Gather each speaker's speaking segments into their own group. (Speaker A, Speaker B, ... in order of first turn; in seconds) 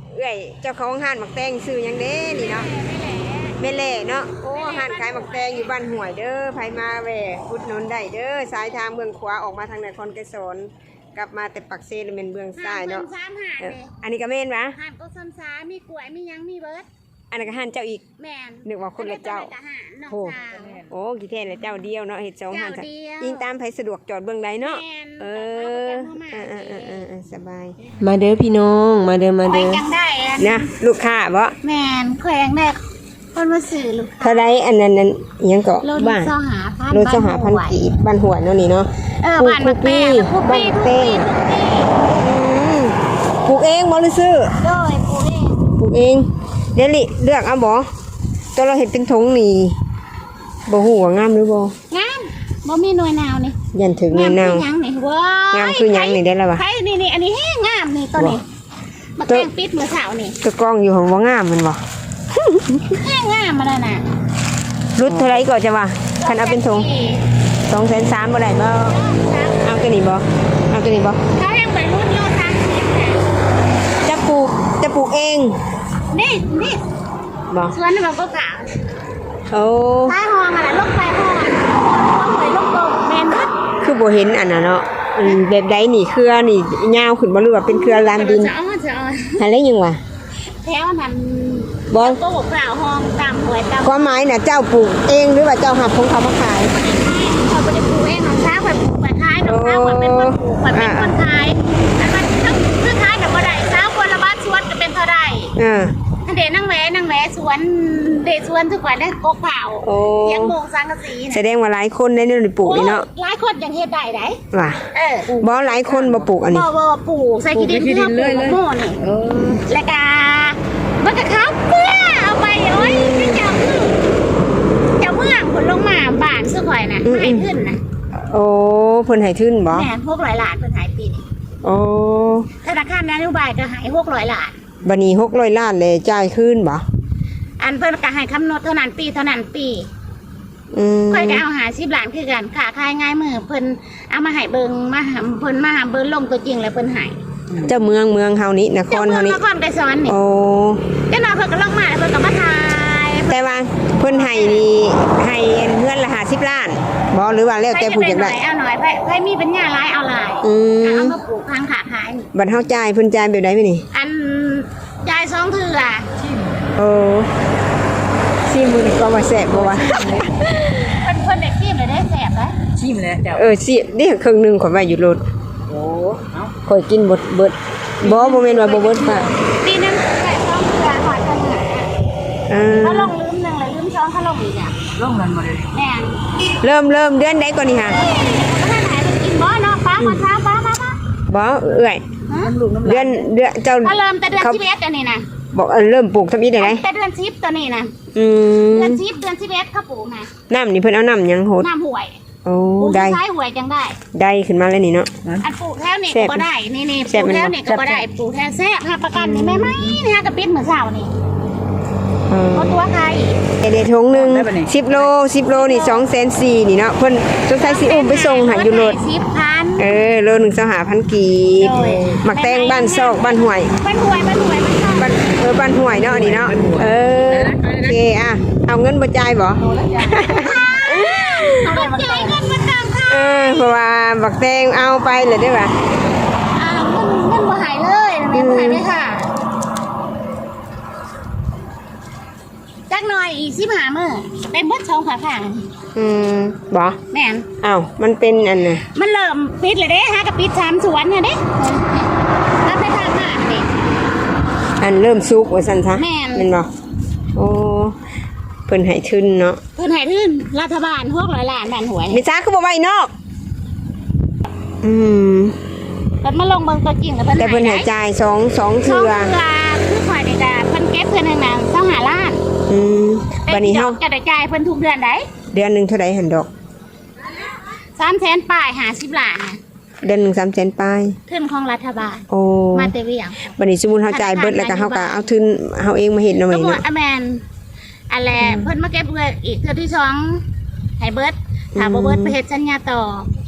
Speaker A: 0.1-2.7, 3.6-13.1, 13.6-14.8, 17.3-18.0, 18.6-19.5, 20.1-27.8, 30.4-31.6, 34.2-36.3, 36.9-41.3, 42.0-44.5, 45.8-47.9, 48.5-49.8, 50.7-51.7, 53.7-54.7, 55.5-56.6, 60.4-61.8, 62.3-63.0, 65.0-66.9, 67.7-69.0, 69.6-71.2, 74.0-75.6, 77.5-77.8, 79.5-80.2, 83.8-88.5, 89.4-90.0, 91.9-92.2, 93.8-96.8, 99.5-101.1, 105.6-106.0, 109.8-110.6, 111.3-113.1, 114.5-116.7, 122.8-123.5, 127.0-127.6, 128.1-129.9, 131.6-132.5, 134.8-136.8, 140.7-141.4, 147.6-149.4, 150.1-150.9, 153.3-158.4, 160.4-161.2, 162.3-163.9, 166.8-167.3, 168.5-170.2, 173.3-175.2, 176.6-179.3, 182.5-183.1, 186.6-188.0, 191.3-192.1, 192.8-194.6, 195.5-196.8, 198.1-199.0, 200.5-201.7, 202.4-203.2, 204.1-205.1, 206.1-206.5, 207.1-207.6, 209.2-209.8, 212.3-212.8, 213.6-219.0, 219.8-223.7, 224.9-231.9, 233.1-235.7, 238.3-238.8, 245.9-247.0, 247.6-248.9, 254.8-256.7, 257.4-258.0, 258.7-259.6, 262.1-263.1, 264.8-265.6, 267.4-269.3, 272.7-274.0, 275.5-276.5, 280.0-281.2, 282.3-282.9, 283.5-286.8, 288.4-288.7, 291.8-292.4
Speaker B: 2.3-3.6, 4.4-5.7, 12.6-13.9, 14.8-16.9, 18.2-20.9, 22.5-23.4, 24.6-27.1, 29.4-30.7, 31.6-32.8, 33.3-34.5, 35.8-37.8, 39.2-42.0, 44.6-45.6, 51.9-53.6, 54.1-58.4, 59.2-60.4, 62.9-64.0, 66.2-67.2, 68.7-70.0, 71.3-73.3, 76.1-76.8, 77.7-78.7, 80.1-83.5, 87.7-89.4, 90.6-94.1, 96.6-105.5, 106.2-111.4, 112.6-114.4, 114.9-115.3, 116.4-119.0, 119.6-124.0, 125.0-127.8, 129.7-131.2, 132.6-134.6, 137.6-139.9, 141.1-147.2, 148.9-150.2, 151.1-153.4, 154.0-154.7, 157.7-162.3, 163.9-166.1, 170.6-172.6, 179.6-181.9, 182.7-184.8, 185.7-186.2, 187.8-191.0, 192.3-192.6, 193.8-195.3, 196.6-197.9, 198.7-200.3, 201.6-202.2, 202.8-204.0, 205.4-211.1, 212.5-213.4, 215.5-216.0, 217.6-220.0, 221.6-225.4, 230.5-233.8, 236.5-239.3, 242.9-245.7, 247.1-247.5, 248.9-252.1, 252.6-253.7, 256.0-256.5, 259.8-262.2, 266.2-267.9, 268.8-272.4, 273.5-275.3, 278.0-279.6, 281.3-283.5, 284.1-285.3, 286.5-287.4, 288.1-290.4, 291.0-293.3
Speaker C: 28.0-29.8, 65.1-65.4
Speaker D: 115.5-116.2, 117.5-119.5, 166.2-166.7, 169.5-170.3, 172.7-173.5, 175.7-176.6, 178.0-179.4, 184.9-185.7, 192.4-193.3, 207.6-208.0, 214.1-215.1, 225.8-228.0, 229.6-230.6, 231.6-232.4